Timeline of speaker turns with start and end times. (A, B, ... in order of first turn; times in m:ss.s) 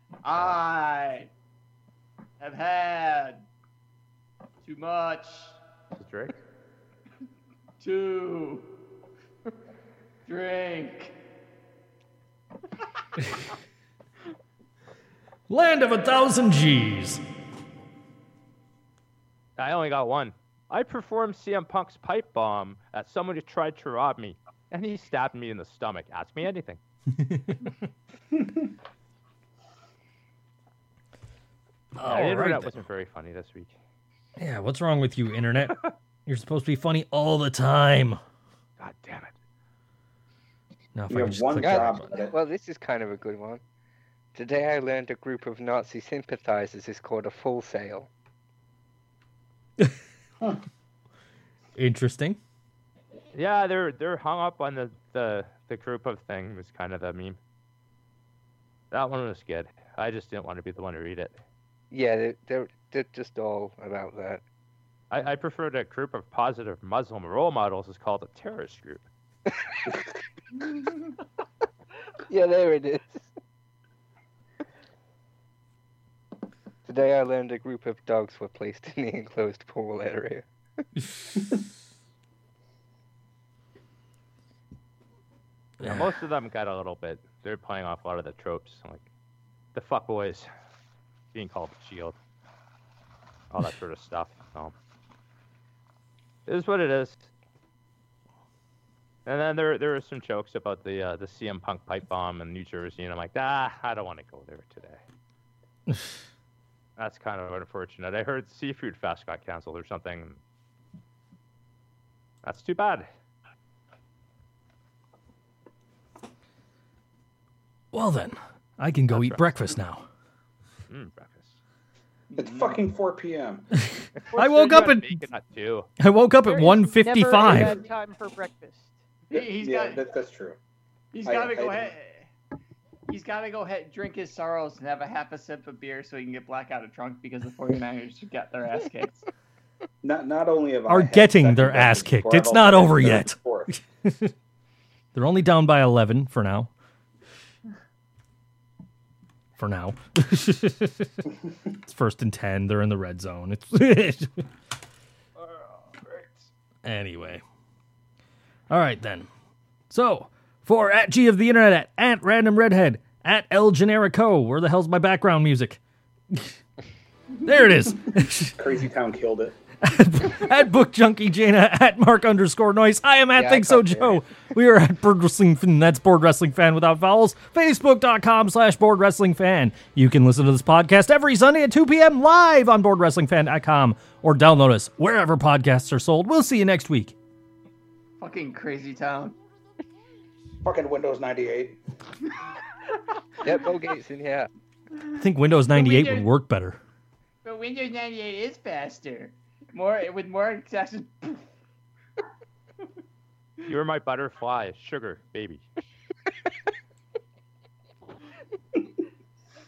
0:00.2-0:01.3 A
0:00.4-0:00.6 B
0:02.4-0:03.4 A
0:04.6-0:05.6 A
0:06.0-0:06.4 B
0:07.8-0:08.7 A
0:10.2-0:11.1 A
0:15.5-0:17.2 C
0:19.6-0:26.8 B
0:27.1-0:27.7 C
0:31.9-0:32.7 C
0:32.0-0:33.7 B
0:34.4-0:38.2 C
0:38.8-0:39.3 B
0:40.9-0:42.1 C
0:41.1-0:42.3 D
0:41.6-0:43.6 E
0:44.3-0:48.1 E
0:51.8-0:52.4 C
0:53.3-0:57.4 B
0:58.9-1:01.4 B
1:01.9-1:04.4 E
1:05.1-1:09.0 B
1:12.3-1:13.3 E
1:16.8-1:20.5 E
1:25.8-1:26.1 C
1:25.8-1:29.0 B
1:29.7-1:30.5 B
1:31.3-1:32.2 B
1:33.5-1:34.7 B
1:36.4-1:37.3 B
1:39.2-1:45.0 B
1:45.9-1:46.1 C
1:47.0-1:50.4 B
1:52.4-1:53.1 B
1:57.9-2:00.0 C
1:59.1-1:59.7 B
2:00.9-2:01.6 B
2:02.3-2:02.7 A
2:02.3-2:03.8 D
2:04.0-2:05.2 C
2:04.2-2:05.9 B
2:06.0-2:07.8 C
2:06.4-2:09.0 F
2:09.3-2:10.0 A
2:09.3-2:10.6 D
2:11.1-2:12.3 A
2:11.2-2:11.9 D
2:13.0-2:19.2 A
2:20.0-2:23.7 D
2:20.9-2:24.3 C
2:25.1-2:26.7 C
2:29.6-2:31.1 C
2:31.8-2:34.5 C
2:35.4-2:36.3 B
2:36.8-2:37.4 C
2:38.7-2:39.3 C
2:39.9-2:45.8 C
2:47.4-2:48.6 C
2:48.5-2:49.6 D
2:49.8-3:07.1 C
2:53.3-2:54.2 E
3:08.2-3:09.4 A
3:10.6-3:11.8 D
3:13.4-3:14.5 E
3:15.2-3:16.8 C
3:15.7-3:16.3 A
3:17.4-3:21.4 A
3:23.6-3:25.6 B